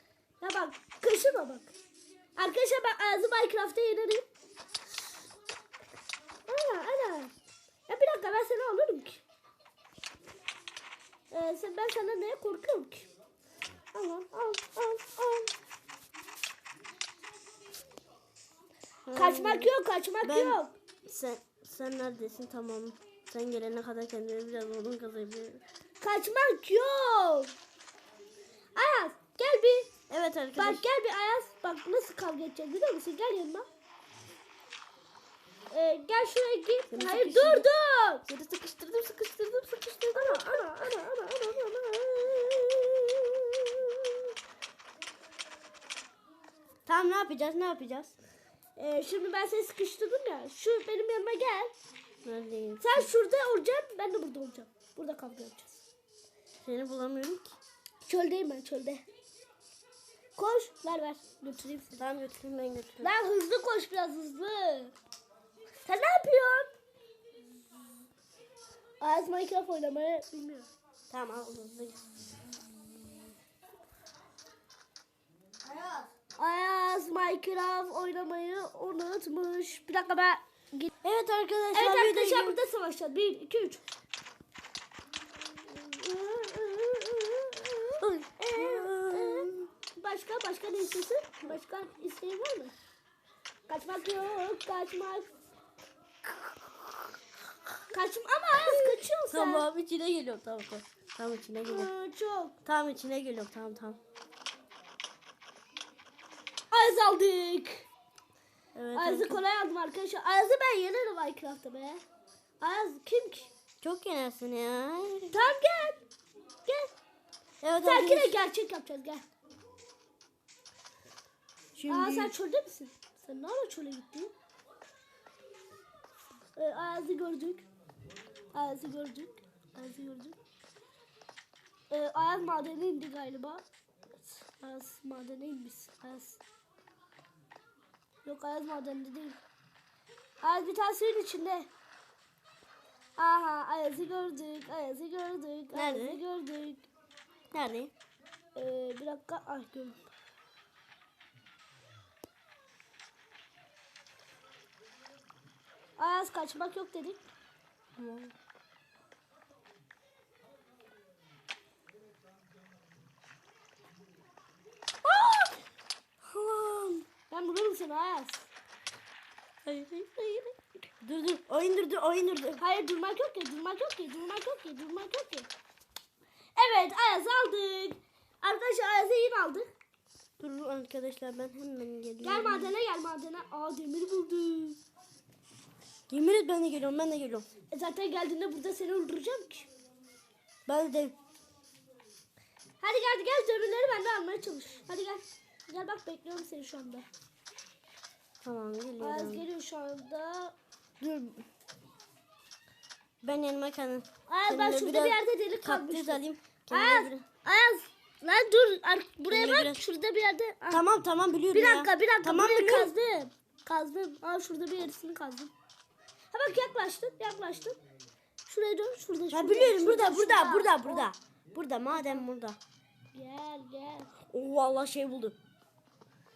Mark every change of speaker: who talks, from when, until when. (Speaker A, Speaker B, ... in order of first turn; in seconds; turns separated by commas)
Speaker A: 0.4-1.7, Speaker A: 2.4-4.2, Speaker A: 6.5-7.3, Speaker A: 7.9-9.2, Speaker A: 11.3-13.1, Speaker A: 13.9-15.5, Speaker B: 19.1-19.7, Speaker A: 19.1-20.7, Speaker B: 20.2-25.6, Speaker A: 26.0-27.5, Speaker A: 28.7-29.9, Speaker B: 30.1-30.8, Speaker A: 30.6-33.6, Speaker A: 35.7-38.2, Speaker B: 36.9-37.6, Speaker B: 38.3-40.7, Speaker A: 40.1-44.2, Speaker B: 46.9-48.1, Speaker A: 48.8-51.7, Speaker B: 52.2-53.1, Speaker A: 52.8-55.8, Speaker B: 56.6-57.5, Speaker A: 58.0-59.0, Speaker A: 60.4-62.0, Speaker B: 62.0-63.1, Speaker A: 63.0-64.9, Speaker A: 65.8-66.7, Speaker A: 69.0-70.7, Speaker B: 71.1-72.1, Speaker A: 76.4-80.9, Speaker B: 81.0-82.6, Speaker A: 81.7-83.8, Speaker A: 85.7-92.7, Speaker B: 88.0-89.7, Speaker A: 93.7-95.3, Speaker A: 97.9-99.7, Speaker B: 98.6-101.9, Speaker A: 101.6-102.5, Speaker B: 102.6-104.0, Speaker A: 106.7-107.9, Speaker B: 108.7-109.4, Speaker A: 108.9-112.0, Speaker A: 112.6-113.5, Speaker B: 113.8-115.3, Speaker A: 115.3-116.0, Speaker A: 116.6-116.9, Speaker B: 117.6-118.3, Speaker A: 117.8-119.2, Speaker B: 121.8-122.3, Speaker A: 121.9-124.3, Speaker A: 126.5-127.7, Speaker A: 128.5-130.4, Speaker A: 131.9-133.6, Speaker A: 134.2-136.4, Speaker A: 138.2-139.4, Speaker A: 140.4-141.7, Speaker A: 143.2-146.9, Speaker B: 145.7-146.2, Speaker B: 147.5-147.9, Speaker A: 148.5-150.0, Speaker A: 156.0-157.2, Speaker B: 158.0-158.3, Speaker A: 165.1-165.5, Speaker A: 166.4-168.5, Speaker B: 169.7-169.9, Speaker A: 169.9-170.5, Speaker B: 171.0-172.6, Speaker A: 172.6-175.5, Speaker A: 176.5-179.7, Speaker B: 180.4-182.7, Speaker A: 182.2-184.8, Speaker B: 186.1-187.5, Speaker A: 187.7-189.7, Speaker B: 190.7-191.1, Speaker A: 192.8-197.1, Speaker B: 198.4-199.4, Speaker A: 199.0-200.5, Speaker B: 201.0-201.4, Speaker B: 203.2-207.2, Speaker A: 204.3-210.8, Speaker B: 209.3-209.8, Speaker B: 210.7-212.9, Speaker A: 211.5-215.5, Speaker A: 216.3-217.8, Speaker A: 218.4-221.1, Speaker B: 219.3-222.6, Speaker A: 223.1-224.1, Speaker B: 224.3-225.3